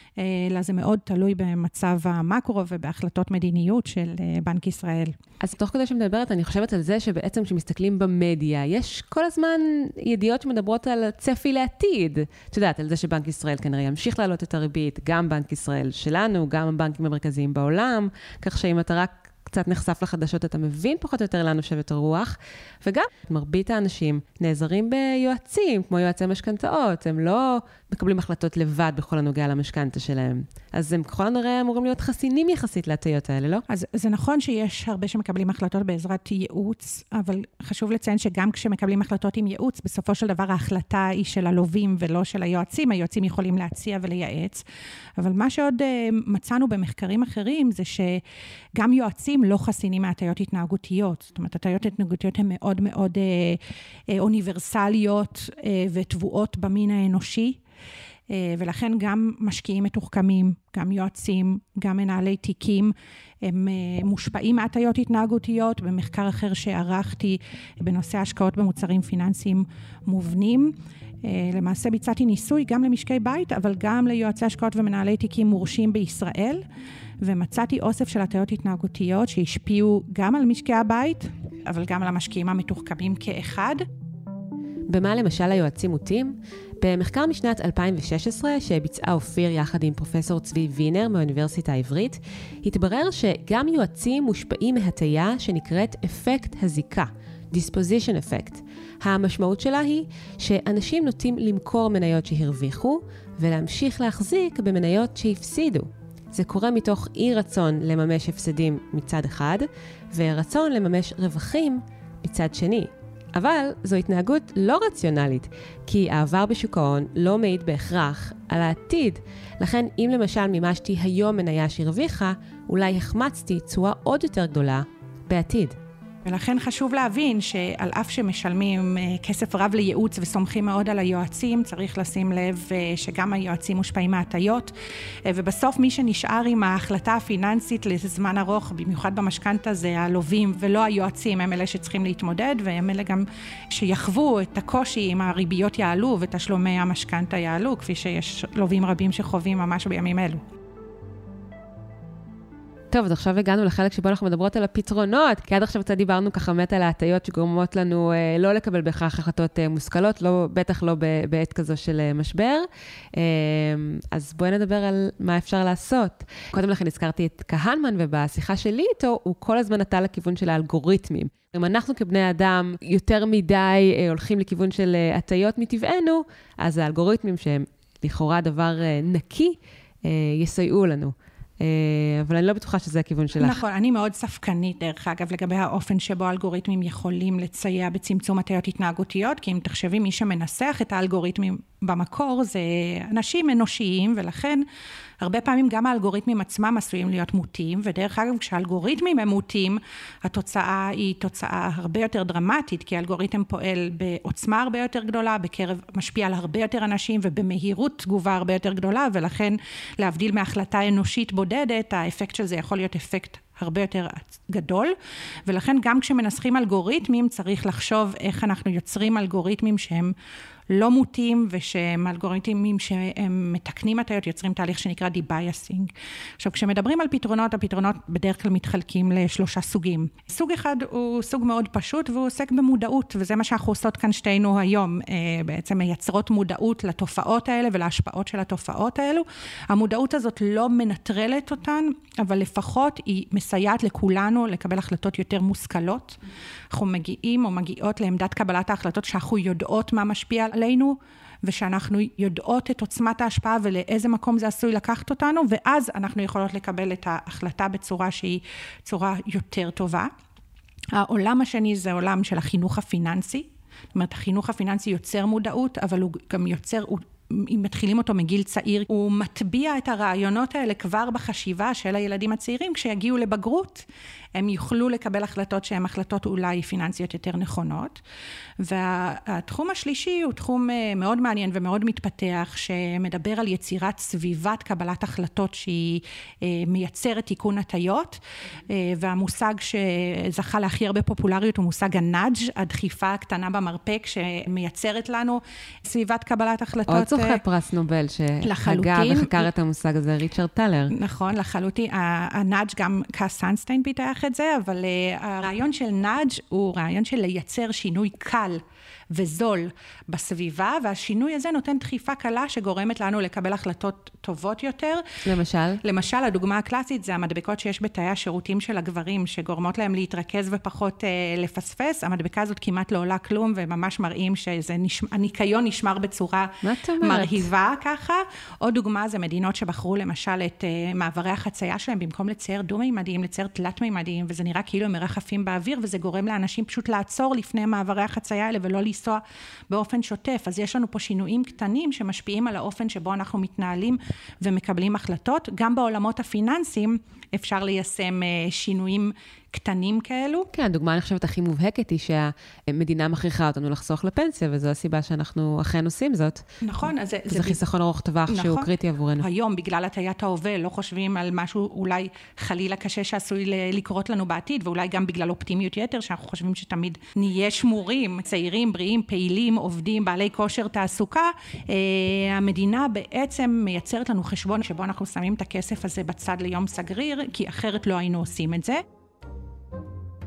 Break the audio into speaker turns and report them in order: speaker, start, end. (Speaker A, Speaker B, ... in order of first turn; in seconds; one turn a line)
Speaker A: 0.2-5.1
Speaker B: 5.4-33.6
Speaker A: 33.7-44.6
Speaker A: 45.2-48.2
Speaker A: 48.8-57.6
Speaker A: 58.3-76.6
Speaker A: 77.2-83.9
Speaker B: 84.9-125.8
Speaker A: 126.2-134.7
Speaker A: 135.2-150.4
Speaker B: 152.9-183.6
Speaker A: 183.4-194.6
Speaker A: 195.2-214.9
Speaker A: 215.4-220.1
Speaker A: 220.7-246.2
Speaker A: 246.7-260.1
Speaker A: 260.9-278.0
Speaker A: 278.6-297.4
Speaker B: 296.9-300.9
Speaker A: 298.4-299.5
Speaker A: 300.9-315.1
Speaker B: 315.2-315.8
Speaker A: 315.8-350.5
Speaker B: 326.6-327.5
Speaker B: 350.5-356.4
Speaker A: 356.6-357.6
Speaker B: 357.3-359.3
Speaker A: 358.3-378.8